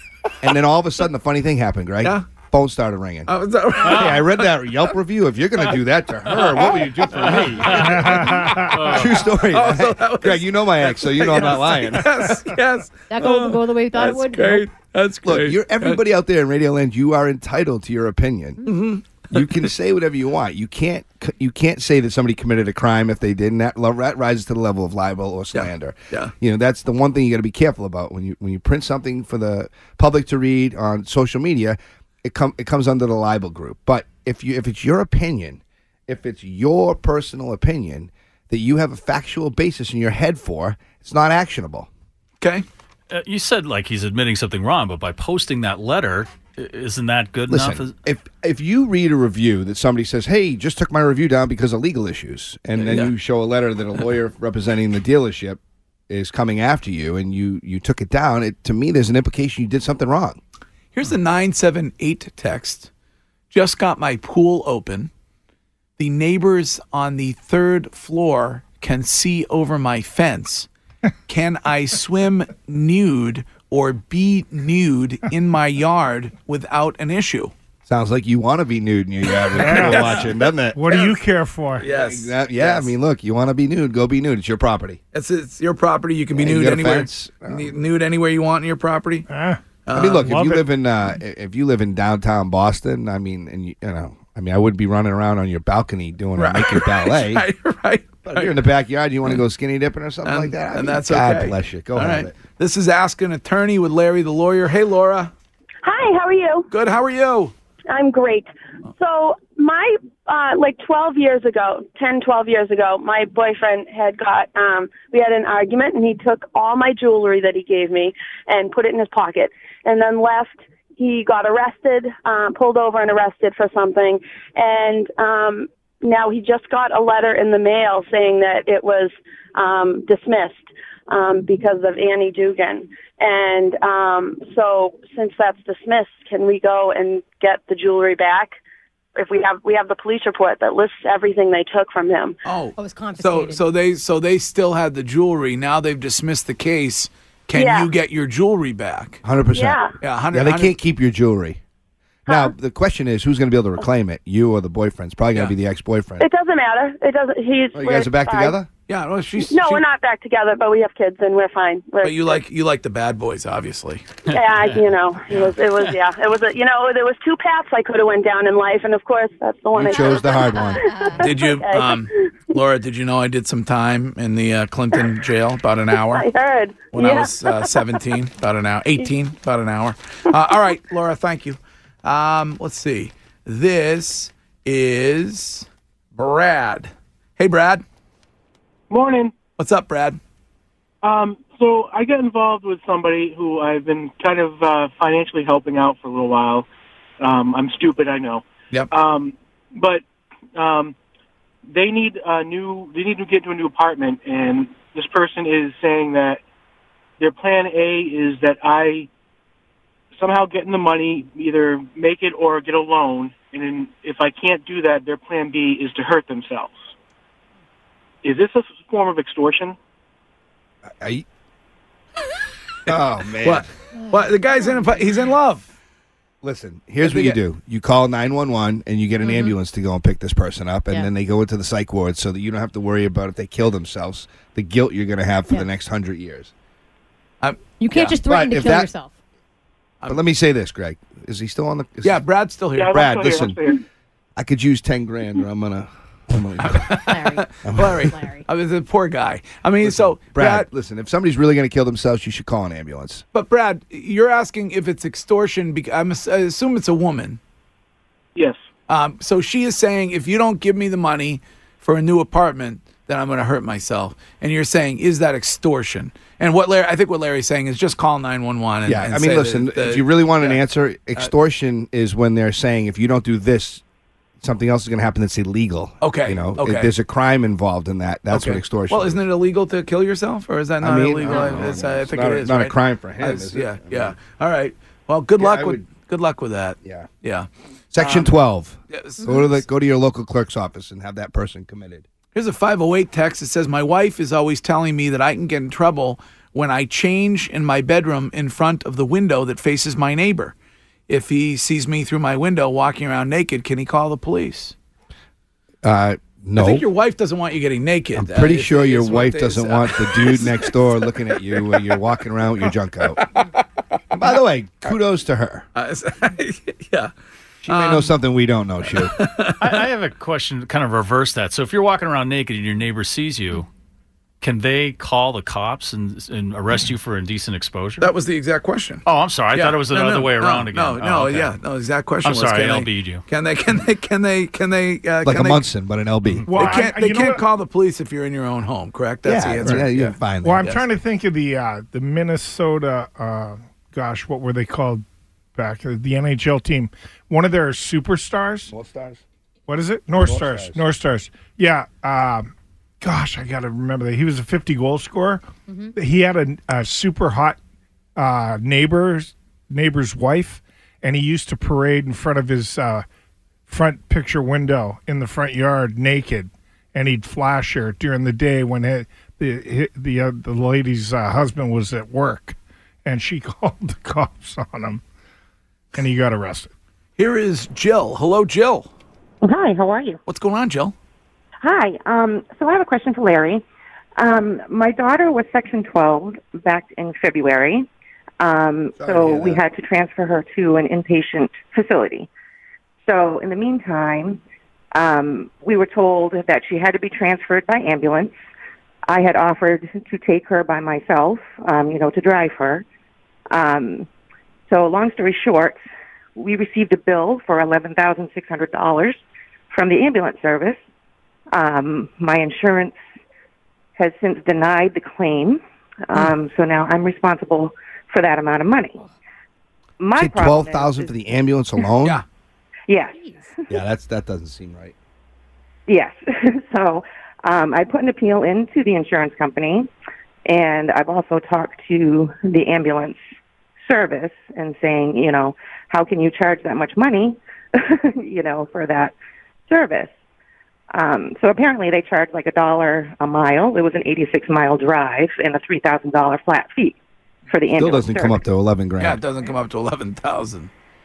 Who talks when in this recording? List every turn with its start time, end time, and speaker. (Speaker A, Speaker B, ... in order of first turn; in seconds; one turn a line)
Speaker A: 0.4-12.3
Speaker B: 3.2-4.7
Speaker B: 6.3-16.0
Speaker C: 7.1-9.2
Speaker D: 8.2-8.7
Speaker E: 13.1-14.7
Speaker A: 15.2-18.6
Speaker B: 18.6-19.6
Speaker A: 19.3-41.9
Speaker B: 25.5-26.3
Speaker B: 42.4-42.6
Speaker C: 43.1-47.9
Speaker A: 47.5-60.4
Speaker B: 52.8-53.1
Speaker B: 60.9-62.9
Speaker B: 63.5-65.1
Speaker B: 66.0-70.7
Speaker B: 71.3-77.5
Speaker A: 77.8-80.8
Speaker B: 79.6-80.3
Speaker D: 79.6-80.1
Speaker D: 80.7-81.8
Speaker B: 80.9-81.1
Speaker B: 81.8-82.9
Speaker A: 81.8-85.0
Speaker B: 85.1-89.3
Speaker A: 86.3-87.7
Speaker D: 89.3-89.6
Speaker B: 89.8-90.3
Speaker A: 89.9-97.4
Speaker D: 90.2-90.6
Speaker B: 96.4-98.6
Speaker A: 98.2-102.3
Speaker B: 100.2-105.3
Speaker F: 105.8-106.7
Speaker B: 106.7-107.5
Speaker F: 107.9-138.6
Speaker F: 139.2-142.4
Speaker B: 142.4-149.2
Speaker E: 142.8-143.6
Speaker F: 147.5-147.9
Speaker A: 149.2-149.8
Speaker F: 149.5-149.9
Speaker B: 150.0-150.8
Speaker A: 150.3-151.6
Speaker A: 152.3-156.2
Speaker F: 152.3-152.5
Speaker F: 156.2-158.6
Speaker A: 157.7-158.7
Speaker B: 158.9-159.8
Speaker F: 159.4-162.4
Speaker B: 162.0-164.1
Speaker F: 164.3-172.3
Speaker C: 164.3-164.7
Speaker A: 169.7-170.8
Speaker E: 170.5-171.2
Speaker B: 171.2-176.2
Speaker F: 176.0-177.9
Speaker B: 176.9-187.8
Speaker G: 188.9-189.3
Speaker B: 189.6-190.2
Speaker G: 191.0-196.7
Speaker G: 197.2-200.0
Speaker G: 200.6-200.9
Speaker G: 201.7-206.4
Speaker G: 207.2-209.1
Speaker G: 210.1-216.9
Speaker G: 218.2-219.8
Speaker A: 221.0-221.2
Speaker A: 222.9-223.7
Speaker B: 222.9-225.7
Speaker A: 226.4-236.5
Speaker B: 227.0-227.4
Speaker E: 229.2-229.5
Speaker B: 237.4-237.7
Speaker E: 237.8-239.1
Speaker A: 237.9-238.9
Speaker A: 240.1-242.2
Speaker B: 242.0-243.1
Speaker G: 242.8-243.8
Speaker A: 242.9-243.6
Speaker A: 244.3-247.0
Speaker B: 246.6-250.7
Speaker E: 247.1-248.4
Speaker A: 247.6-248.1
Speaker A: 249.8-253.2
Speaker B: 253.3-257.4
Speaker G: 258.3-258.6
Speaker B: 258.9-270.6
Speaker A: 268.9-273.8
Speaker A: 274.4-279.2
Speaker B: 276.0-276.9
Speaker B: 278.3-288.3
Speaker A: 280.8-284.1
Speaker E: 281.3-281.7
Speaker A: 285.4-285.8
Speaker A: 286.8-287.1
Speaker A: 287.9-292.0
Speaker B: 288.9-289.6
Speaker B: 292.3-300.5
Speaker B: 301.1-304.7
Speaker A: 305.8-306.9
Speaker B: 306.6-311.8
Speaker A: 308.1-313.2
Speaker B: 313.1-313.6
Speaker A: 314.1-315.7
Speaker B: 315.7-317.1
Speaker B: 317.6-318.1
Speaker A: 317.6-319.1
Speaker B: 318.9-319.9
Speaker C: 319.6-323.7
Speaker C: 324.4-328.1
Speaker B: 328.0-335.6
Speaker C: 329.1-331.6
Speaker C: 332.2-333.2
Speaker A: 335.2-336.8
Speaker C: 336.3-336.8
Speaker D: 336.4-337.4
Speaker B: 336.5-340.8
Speaker A: 339.2-340.7
Speaker D: 340.4-345.0
Speaker D: 345.6-348.7
Speaker A: 348.7-349.2
Speaker D: 349.7-352.5
Speaker A: 350.1-350.8
Speaker D: 353.0-355.4
Speaker D: 355.9-357.6
Speaker D: 358.2-363.0
Speaker D: 363.7-375.0
Speaker D: 375.9-376.7
Speaker B: 377.2-378.9
Speaker H: 379.4-380.2
Speaker B: 380.2-380.9
Speaker H: 381.6-383.6
Speaker H: 384.2-387.9
Speaker H: 388.4-392.3
Speaker A: 389.0-389.6
Speaker H: 393.0-394.4
Speaker H: 394.9-398.4
Speaker H: 399.1-402.8
Speaker H: 403.5-404.1
Speaker H: 404.7-405.8
Speaker H: 406.4-410.8
Speaker H: 411.5-413.0
Speaker H: 414.0-419.0
Speaker H: 420.0-421.1
Speaker A: 420.1-422.2
Speaker H: 422.9-423.3
Speaker A: 423.7-424.9
Speaker H: 425.9-429.9
Speaker H: 430.4-433.2
Speaker H: 433.8-439.1
Speaker H: 439.7-440.1
Speaker H: 440.9-447.0
Speaker H: 447.5-448.4
Speaker A: 447.8-449.2
Speaker B: 449.0-450.7